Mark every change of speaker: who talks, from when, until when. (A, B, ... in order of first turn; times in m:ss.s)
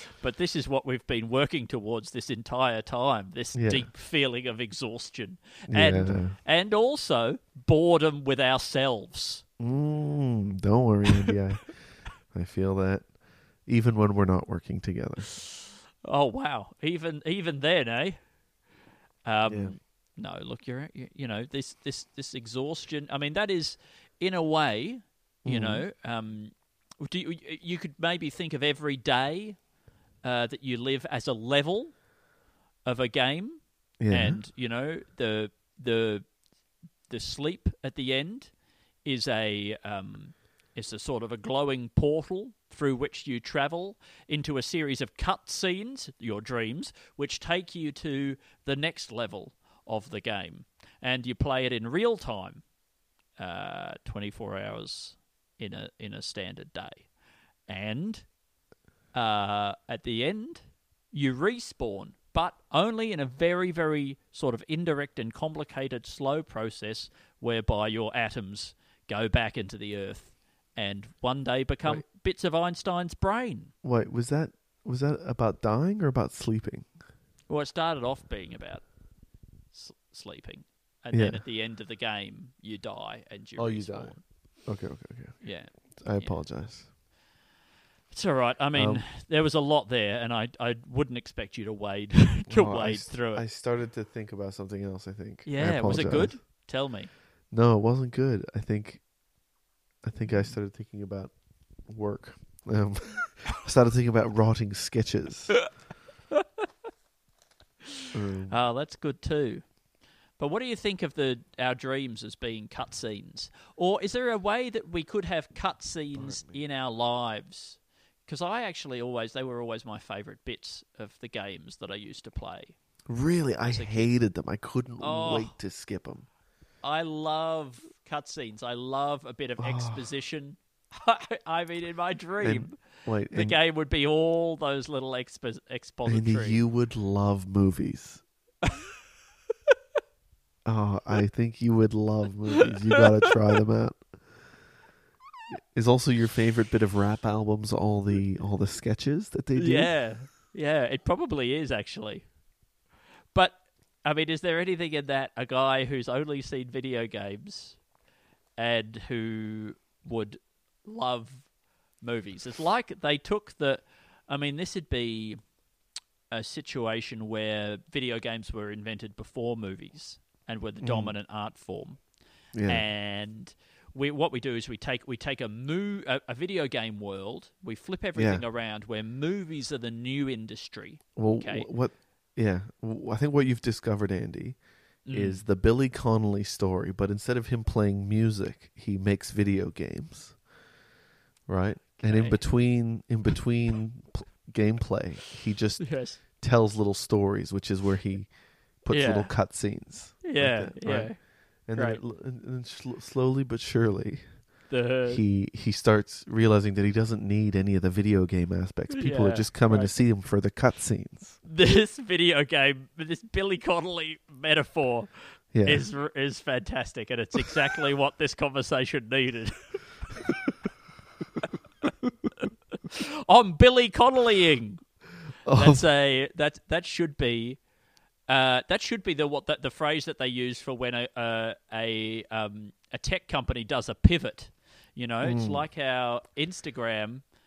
0:00.2-0:09.4 A
0:03.5-0:03.9 B
0:05.7-0:06.4 B
0:09.6-0:15.3 B
0:16.0-0:18.2 A
0:19.2-0:29.7 A
0:19.4-0:19.8 B
0:25.4-0:25.8 B
0:30.2-0:32.1 A
0:32.8-0:36.3 A
0:34.0-0:34.4 B
0:37.1-0:52.7 A
0:53.4-0:57.1 A
0:57.7-0:58.4 A
0:59.1-1:13.7 A
1:13.8-1:17.0 B
1:17.5-1:19.2 A
1:19.7-1:24.2 A
1:21.1-1:21.4 B
1:23.6-1:26.9 B
1:25.4-1:26.4 A
1:28.1-1:33.5 A
1:28.7-1:29.1 B
1:32.5-1:36.8 B
1:35.4-1:37.1 A
1:37.5-1:39.1 B
1:40.0-1:45.8 B
1:40.2-1:40.6 A
1:48.1-1:48.6 B
1:48.5-1:49.8 A
1:50.4-2:02.8 A
1:56.1-1:56.6 B
2:03.1-2:06.3 B
2:03.7-2:04.1 A
2:05.0-2:05.6 A
2:06.8-2:16.6 A
2:09.6-2:10.0 B
2:12.4-2:13.6 B
2:16.0-2:18.2 B
2:20.6-2:24.6 B
2:25.7-2:30.2 B
2:29.6-2:32.3 A
2:33.3-2:37.8 A
2:38.6-2:45.5 A
2:46.3-3:01.7 A
2:50.8-2:51.2 B
2:52.5-2:52.9 B
2:58.2-2:58.4 B
3:01.2-3:10.4 B
3:05.0-3:05.4 A
3:11.5-3:31.4 B
3:12.0-3:13.0 A
3:15.8-3:16.2 A
3:18.9-3:19.6 A
3:20.2-3:22.0 A
3:24.7-3:25.2 A
3:28.9-3:30.0 A
3:31.4-3:39.9 A
3:35.5-3:35.9 B
3:42.4-3:47.6 A
3:45.4-3:45.9 B
3:48.3-3:57.2 A
3:55.2-3:55.7 B